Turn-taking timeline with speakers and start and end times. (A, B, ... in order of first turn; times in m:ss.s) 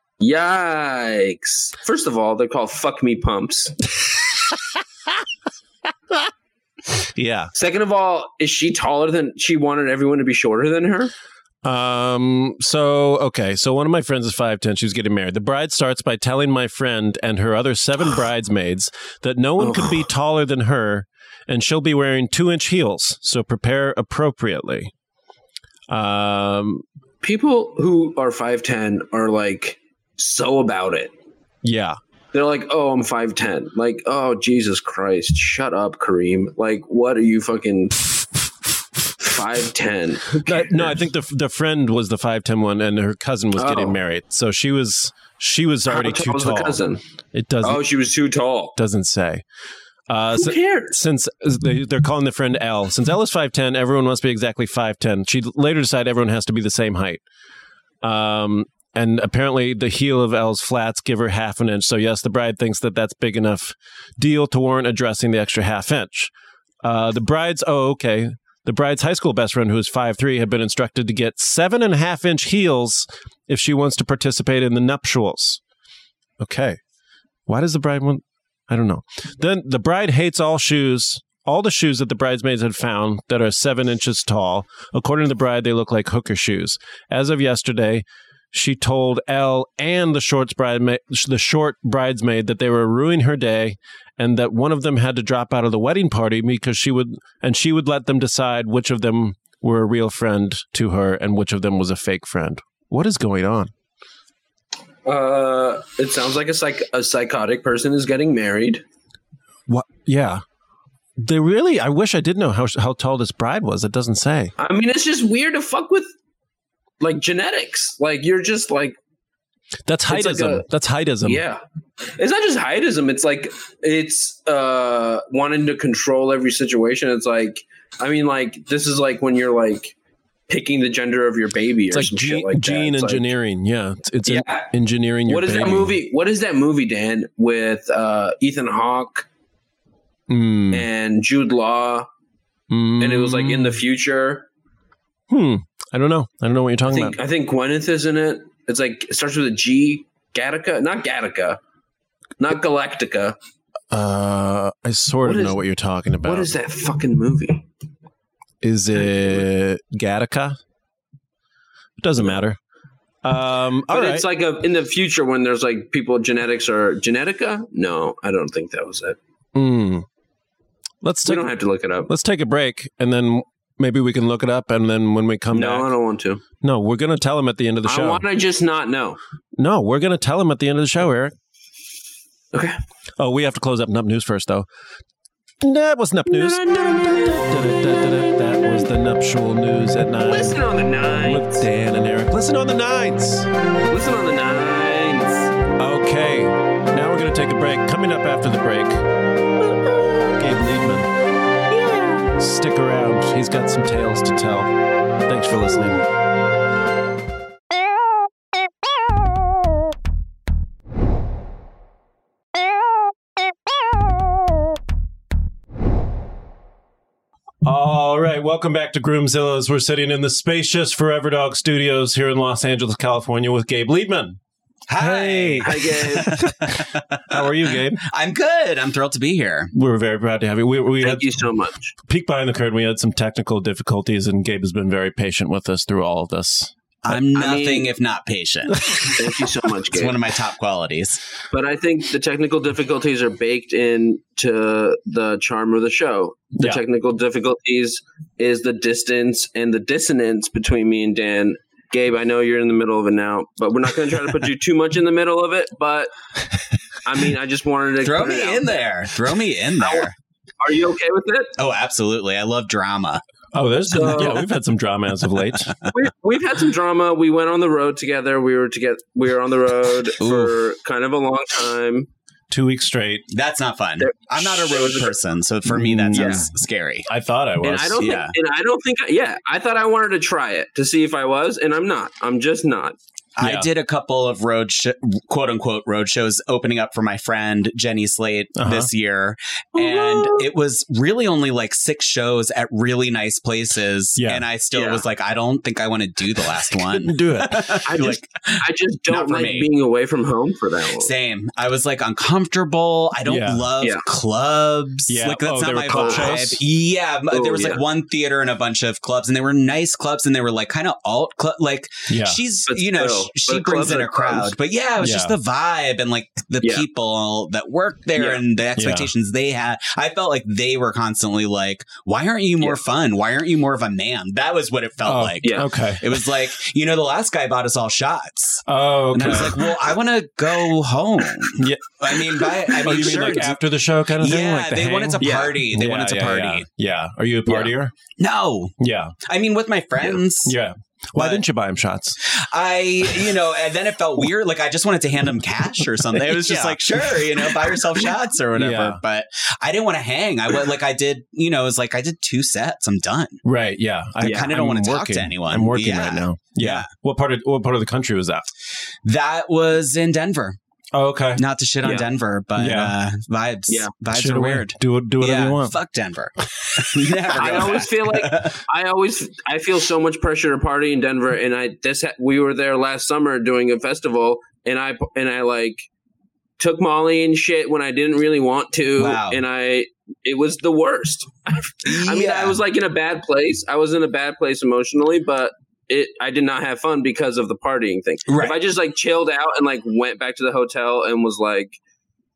0:00.2-0:03.8 A
0:07.0-0:07.5 B
0:07.6-0:11.1 A
0:11.6-0:24.9 B
0:19.6-0:20.0 A
0:25.9-0:26.8 B
0:27.2-0:31.1 A
0:31.6-0:32.0 B
0:32.3-0:38.0 A
0:39.2-0:41.0 A
0:40.4-0:46.8 B
0:43.6-0:44.0 A
0:45.9-0:47.0 A
0:47.3-0:47.8 B
0:47.6-0:48.8 A
0:48.8-0:49.4 B
0:50.1-0:57.2 B
0:50.4-0:51.0 A
0:58.0-1:06.3 B
1:06.8-1:15.6 B
1:16.4-1:16.8 B
1:17.5-1:43.7 B
1:45.0-1:48.8 A
1:49.7-1:50.4 B
1:51.2-1:54.5 B
1:54.6-1:56.1 A
1:57.0-1:59.0 A
1:59.9-2:01.4 B
2:00.1-2:00.6 A
2:01.2-2:01.6 A
2:02.2-2:10.0 A
2:10.5-2:13.3 A
2:11.9-2:16.0 B
2:14.3-2:14.7 A
2:15.3-2:19.3 A
2:20.3-2:20.9 B
2:20.7-2:22.1 A
2:22.7-2:23.8 B
2:23.0-2:24.5 A
2:25.3-2:27.2 B
2:26.9-2:31.6 A
2:32.4-2:33.4 A
2:33.9-2:36.5 B
2:35.2-2:35.6 A
2:36.2-2:37.6 A
2:38.6-2:40.6 B
2:42.0-2:42.6 B
2:43.2-2:44.3 B
2:43.9-2:49.2 A
2:49.6-2:50.1 B
2:51.0-2:51.5 B
2:51.3-2:52.1 A
2:52.1-2:55.9 B
2:55.5-2:56.4 A
2:56.6-2:58.2 B
2:57.9-2:59.2 A
2:59.6-3:01.4 B
3:03.2-3:04.7 B
3:05.6-3:10.6 B
3:06.3-3:07.4 A
3:10.3-3:11.7 A
3:11.2-3:13.5 B
3:13.9-3:15.5 A
3:15.8-3:19.0 B
3:20.4-3:21.1 B
3:21.7-3:22.2 A
3:22.3-3:24.7 B
3:25.3-3:26.1 B
3:37.6-3:44.4 B
3:44.9-3:47.4 C
3:45.0-3:48.0 B
3:45.6-3:46.5 A
3:48.0-3:49.7 C
3:49.7-3:51.4 B
3:51.0-3:51.9 A
3:52.1-3:56.7 B
3:57.0-3:59.1 C
3:57.1-3:57.9 A
3:58.8-3:59.2 B
3:59.2-4:00.2 A
3:59.9-4:01.2 C
4:01.5-4:16.1 A
4:17.0-4:18.8 A
4:18.0-4:20.1 C
4:19.8-4:20.1 A
4:20.6-4:21.5 A
4:21.6-4:23.2 C
4:23.5-4:25.7 B
4:23.9-4:24.5 A
4:25.9-4:32.1 A
4:30.2-4:30.5 C
4:32.5-4:33.2 B
4:33.3-4:37.1 C
4:34.0-4:35.2 A
4:35.7-4:36.5 B
4:36.2-4:36.4 A
4:37.1-4:38.0 B
4:37.6-4:43.0 A
4:38.0-4:38.4 C
4:43.4-4:59.7 C
4:43.4-4:43.7 B
4:48.6-4:48.9 B
4:49.8-4:50.5 A
4:54.2-4:54.4 B
4:54.7-4:55.0 A
4:56.9-4:57.8 B
4:57.9-5:01.1 A
5:01.0-5:33.6 C
5:03.2-5:03.7 B
5:05.1-5:06.6 B
5:05.9-5:06.3 A
5:07.3-5:07.8 A
5:12.1-5:12.4 B
5:12.7-5:14.5 A
5:15.0-5:15.4 B
5:18.2-5:18.4 A
5:18.8-5:19.1 B
5:25.0-5:26.1 B
5:25.4-5:25.7 A
5:28.7-5:29.7 B
5:31.6-5:31.9 B
5:32.8-5:38.0 B
5:34.2-5:36.7 C
5:35.2-5:35.6 A
5:38.1-5:40.6 C
5:38.8-5:39.2 B
5:40.4-5:42.2 B
5:41.2-5:41.4 C
5:42.2-5:53.4 C
5:46.4-5:46.8 B
5:48.6-5:49.0 B
5:53.4-5:58.5 B
5:54.2-5:54.5 A
5:54.2-5:56.9 C
5:59.0-6:00.6 C
6:00.9-6:01.4 B
6:01.4-6:08.6 C
6:02.6-6:02.9 B
6:03.7-6:03.9 A
6:04.1-6:05.8 B
6:07.3-6:15.9 A
6:16.6-6:31.8 A
6:19.0-6:19.4 C
6:21.8-6:22.6 C
6:28.3-6:28.6 C